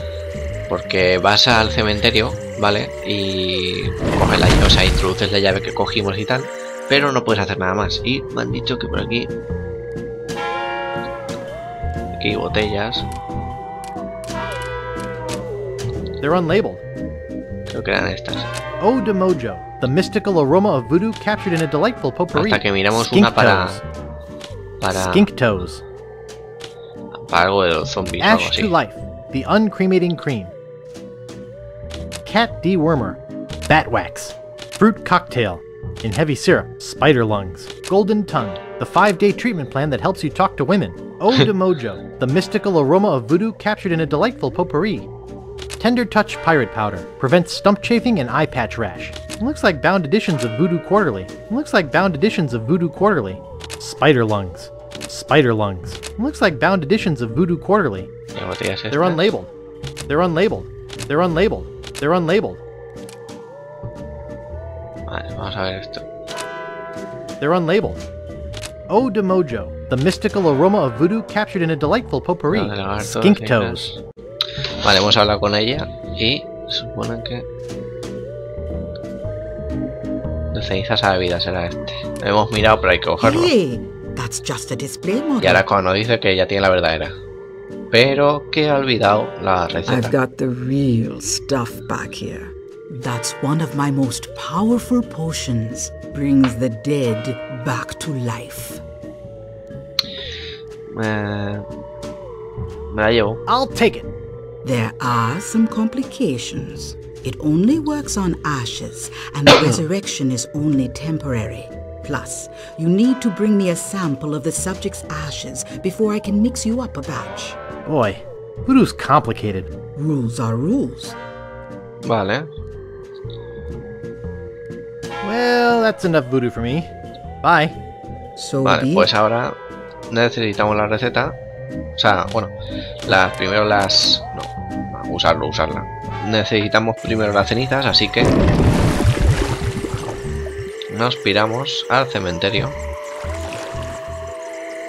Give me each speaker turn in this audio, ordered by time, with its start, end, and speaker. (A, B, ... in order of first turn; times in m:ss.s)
0:00.7-0:09.3 A
0:12.2-0:13.1 A
0:16.2-0:16.8 B
0:17.7-0:18.5 A
0:18.8-0:23.8 B
0:22.3-0:23.8 A
0:24.8-0:25.3 A
0:25.0-0:25.8 B
0:27.2-0:28.7 A
0:28.2-0:30.5 B
0:32.2-0:45.1 B
0:45.8-0:58.1 B
0:58.4-0:59.2 A
0:58.9-0:59.5 B
1:00.1-1:02.6 B
1:05.1-1:06.1 A
1:07.4-1:08.0 B
1:08.9-1:13.9 B
1:12.5-1:14.0 A
1:14.8-1:17.5 A
1:20.5-1:23.5 A
1:23.2-1:25.7 C
1:25.4-1:27.1 A
1:27.9-1:30.2 A
1:29.9-1:38.8 C
1:40.9-1:41.6 A
1:42.9-1:43.4 A
1:43.5-1:44.1 B
1:44.6-1:57.6 C
1:49.5-1:49.8 B
1:57.9-1:59.7 B
2:00.0-2:01.2 C
2:02.0-2:02.5 A
2:05.2-2:06.9 B
2:07.4-2:07.8 B
2:08.4-2:09.1 C
2:08.6-2:09.6 A
2:10.1-2:11.4 A
2:12.0-2:12.5 A
2:13.1-2:18.3 A
2:20.9-2:22.8 A